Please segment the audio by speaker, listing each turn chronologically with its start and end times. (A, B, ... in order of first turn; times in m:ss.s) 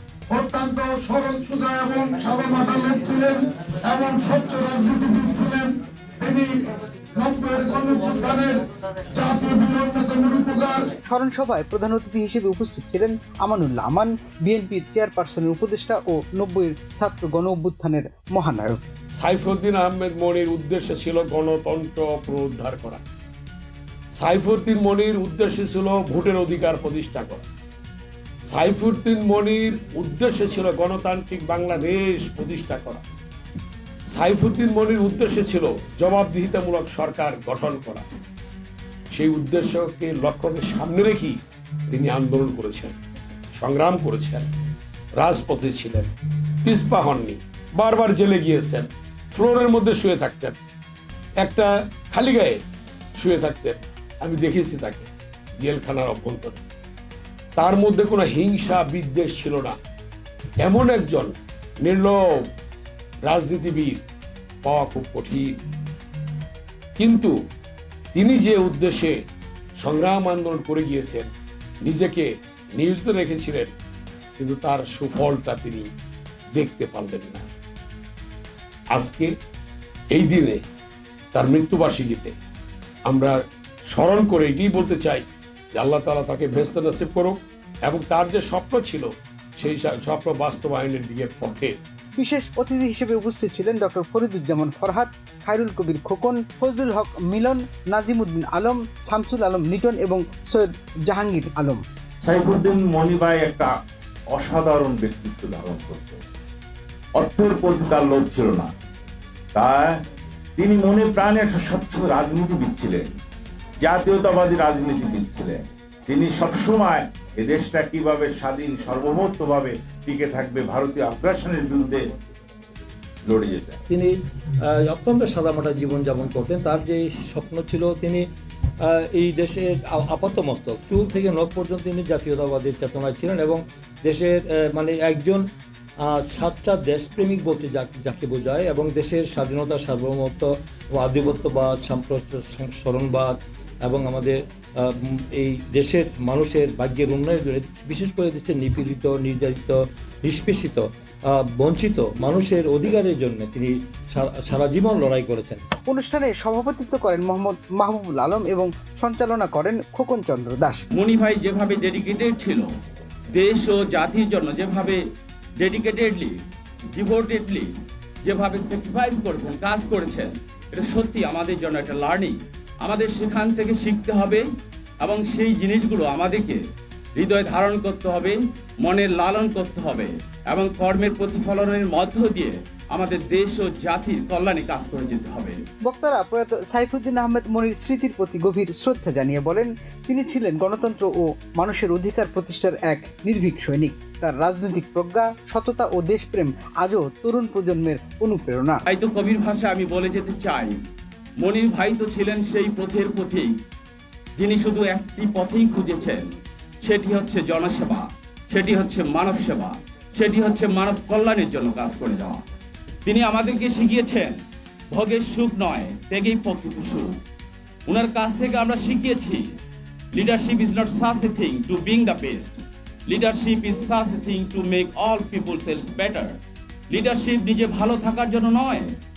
0:00.3-0:06.6 A
0:07.2-0:10.9 A
0:11.1-0:18.8 B
0:19.2-0:23.0 C
0:24.2-0:27.5 C
0:28.5-0:33.0 C
0:34.1-0:38.1 C
0:39.1-0:41.4 C
0:41.9-0:43.0 C
0:43.6-0:44.5 C
0:45.2-0:46.1 C
0:46.6-0:50.6 C
0:51.4-0:52.6 C
0:53.2-0:56.6 C
0:57.6-0:59.8 C
1:00.6-1:02.2 C
1:03.3-1:04.0 C
1:04.6-1:05.5 C
1:07.0-1:07.3 C
1:08.2-1:09.2 C
1:09.8-1:11.3 C
1:11.8-1:13.7 C
1:14.4-1:15.9 C
1:16.6-1:17.5 C
1:18.9-1:19.3 C
1:20.1-1:20.6 C
1:21.3-1:22.4 C
1:23.1-1:23.4 C
1:23.9-1:31.8 C
1:32.2-1:41.8 B
1:42.2-1:43.7 D
1:44.3-1:46.2 D
1:47.2-1:48.7 D
1:49.6-1:50.0 D
1:50.6-1:53.1 D
1:53.8-2:02.0 D
2:03.3-2:03.8 D
2:03.9-2:04.2 E
2:04.7-2:08.3 E
2:08.8-2:15.4 E
2:16.1-2:30.8 E
2:31.3-2:35.6 E
2:35.9-2:40.8 B
2:41.0-2:42.7 F
2:43.4-2:45.0 F
2:45.6-2:46.4 F
2:47.0-2:47.7 F
2:48.2-2:54.4 F
2:55.0-2:56.6 F
2:57.2-3:05.6 F
3:05.9-3:18.8 B
3:18.9-3:20.7 F
3:21.4-3:23.5 F
3:24.4-3:26.2 F
3:26.8-3:32.4 F
3:33.0-3:34.4 F
3:34.9-3:37.1 F
3:37.9-3:39.5 F
3:40.2-3:46.3 F
3:46.9-3:48.9 F